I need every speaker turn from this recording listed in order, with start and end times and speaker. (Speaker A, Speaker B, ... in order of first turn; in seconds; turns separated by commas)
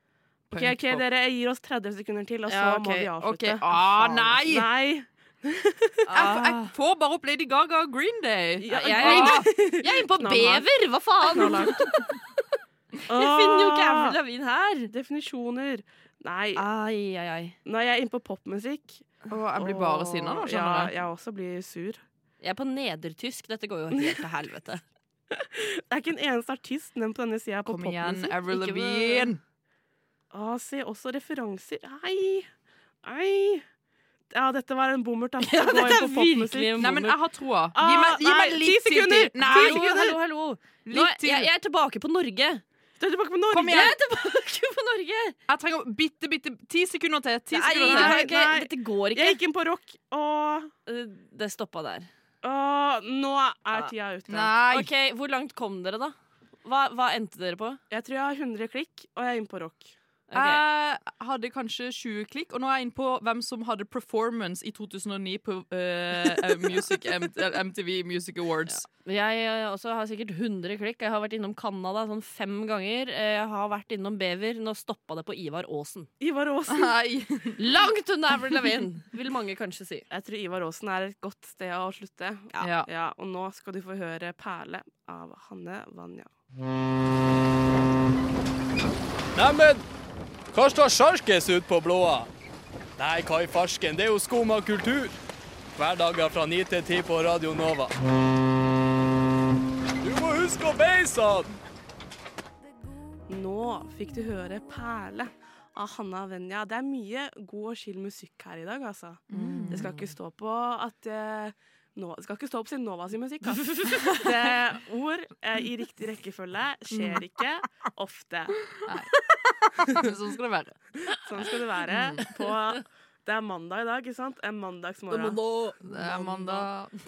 Speaker A: 0.5-1.0, Speaker B: 0.5-6.4, Speaker C: 2.5-3.1, Speaker A: 3.2-4.7, Speaker C: 6.1-6.7, Speaker A: 6.1-9.5, Speaker C: 8.6-12.4, Speaker B: 8.7-10.7, Speaker B: 11.2-11.9, Speaker A: 11.7-12.0, Speaker B: 13.1-14.2, Speaker C: 13.1-14.9, Speaker B: 14.9-16.6, Speaker C: 16.6-17.6, Speaker B: 17.6-22.0, Speaker A: 19.3-20.9, Speaker C: 22.4-24.8, Speaker B: 23.9-24.2, Speaker B: 25.3-28.3, Speaker A: 27.7-29.4, Speaker C: 28.4-29.4, Speaker B: 30.3-32.5, Speaker B: 33.0-33.6, Speaker B: 34.3-36.9, Speaker C: 35.4-37.2, Speaker A: 36.8-39.9, Speaker B: 37.8-40.2, Speaker C: 39.4-42.6, Speaker A: 40.9-41.5, Speaker B: 43.0-43.9, Speaker A: 43.5-44.0, Speaker C: 43.6-45.4, Speaker A: 45.5-48.2, Speaker C: 47.5-49.4, Speaker B: 47.8-50.7, Speaker C: 50.9-52.1, Speaker B: 52.4-54.6, Speaker A: 54.3-54.9, Speaker C: 54.7-57.8, Speaker B: 57.9-60.0, Speaker C: 60.3-60.6, Speaker A: 60.3-68.8, Speaker C: 68.7-76.1, Speaker B: 76.2-76.9, Speaker A: 76.7-77.6, Speaker C: 77.6-80.1, Speaker B: 80.1-86.3, Speaker A: 82.6-82.9, Speaker D: 89.3-89.9, Speaker D: 90.5-92.3, Speaker D: 93.0-95.2, Speaker D: 95.8-98.0, Speaker D: 100.0-101.6, Speaker B: 103.3-118.7, Speaker A: 109.3-109.9, Speaker C: 109.3-110.1, Speaker C: 113.6-114.2, Speaker A: 118.9-119.1, Speaker A: 119.9-120.8, Speaker B: 121.1-126.7, Speaker A: 121.9-122.2, Speaker C: 125.1-125.8, Speaker A: 125.8-126.9